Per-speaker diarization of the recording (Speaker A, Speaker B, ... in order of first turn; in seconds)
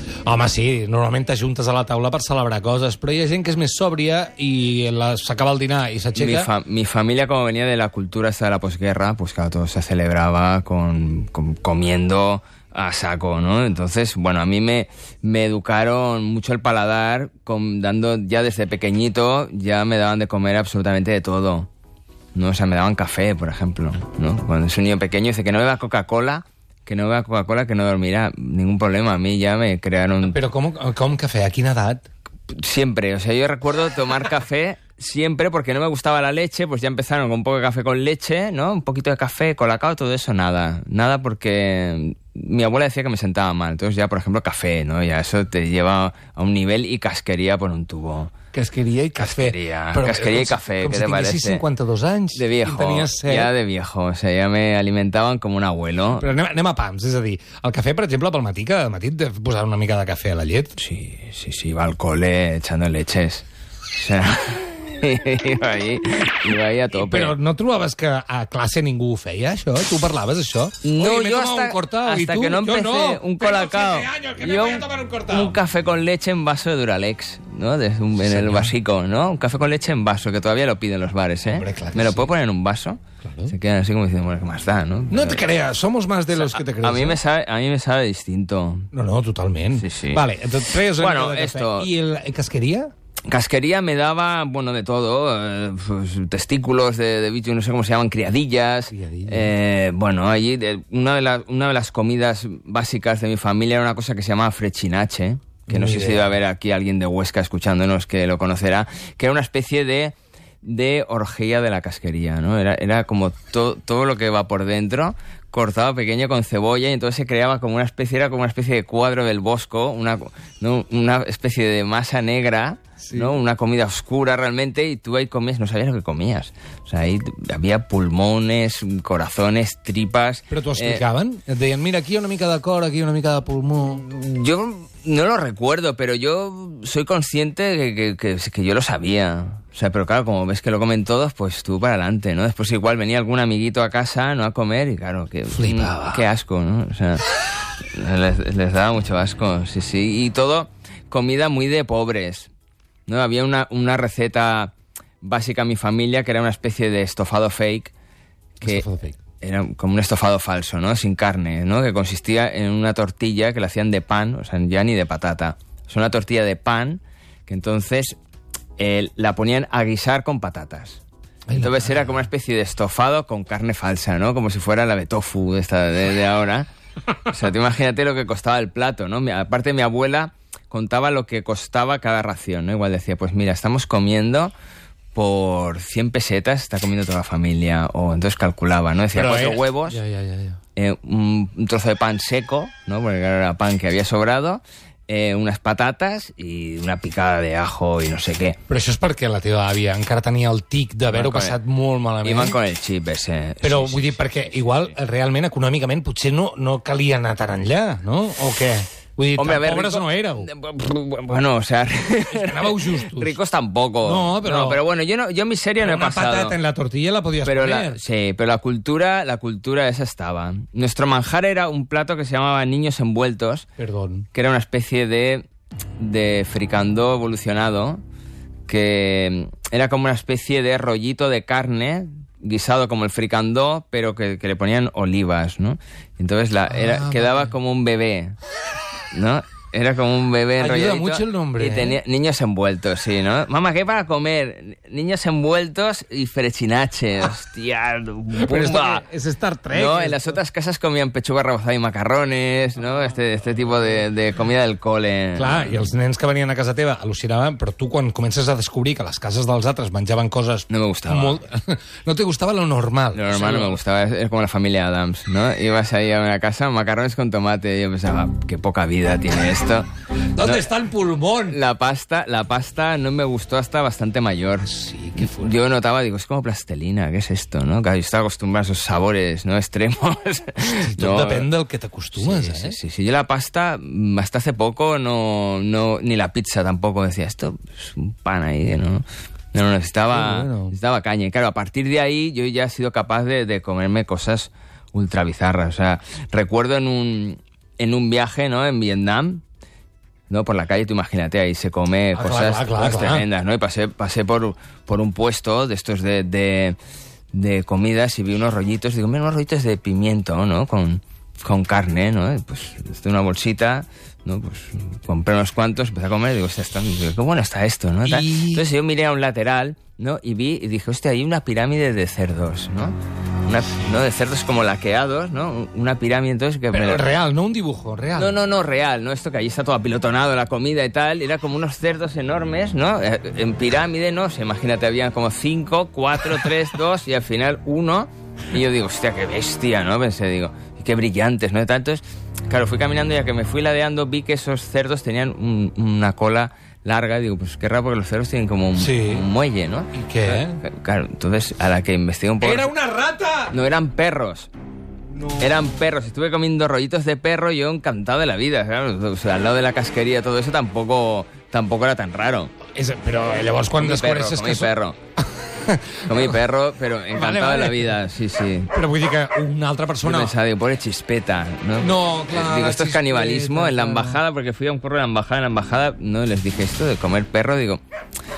Speaker A: 0.2-6.5, 30.2-32.0, 48.5-53.5, 56.2-60.7, 66.9-75.6, 78.2-78.7, 81.5-82.3, 83.2-83.5, 85.1-87.2, 88.9-92.9, 98.9-99.5, 105.7-106.4, 123.0-123.4, 130.5-134.0, 145.5-146.2, 158.6-159.2, 171.5-172.3, 189.1-190.6, 198.7-202.6, 203.6-210.5, 212.3-213.4, 214.0-214.8, 215.8-218.0, 223.8-224.3, 236.7-237.5, 240.6-242.0, 248.3-250.4, 255.3-263.8, 270.4-271.6, 274.6-275.6, 280.6-282.8, 290.1-290.8, 302.1-303.3, 318.0-318.7, 326.7-328.4, 348.8-349.2, 349.9-350.6, 352.4-353.6, 355.1-355.6, 362.7-364.7, 365.4-366.3, 367.1-368.0, 368.7-370.4, 371.8-374.2
Speaker B: 6.2-21.7, 22.3-30.4, 32.5-48.3, 49.2-51.6, 52.3-56.3, 60.8-67.3, 70.8-85.5, 86.3-88.9, 89.7-90.2, 90.8-91.9, 93.3-131.0, 133.9-147.2, 147.9-152.5, 153.1-157.9, 158.6-158.8, 159.4-168.2, 168.8-171.0, 171.5-176.7, 177.3-184.5, 185.1-190.0, 190.8-198.6, 201.1-201.6, 202.2-204.9, 209.3-216.6, 217.4-223.7, 224.3-225.4, 226.0-228.0, 228.7-238.4, 239.1-249.0, 249.7-255.9, 260.7-261.4, 263.1-269.9, 270.4-270.7, 271.4-281.5, 282.1-299.4, 300.3-306.8, 307.3-327.1, 328.1-352.7, 353.5-354.5, 355.4-362.5, 363.8-365.0, 366.0-368.7, 370.0-377.8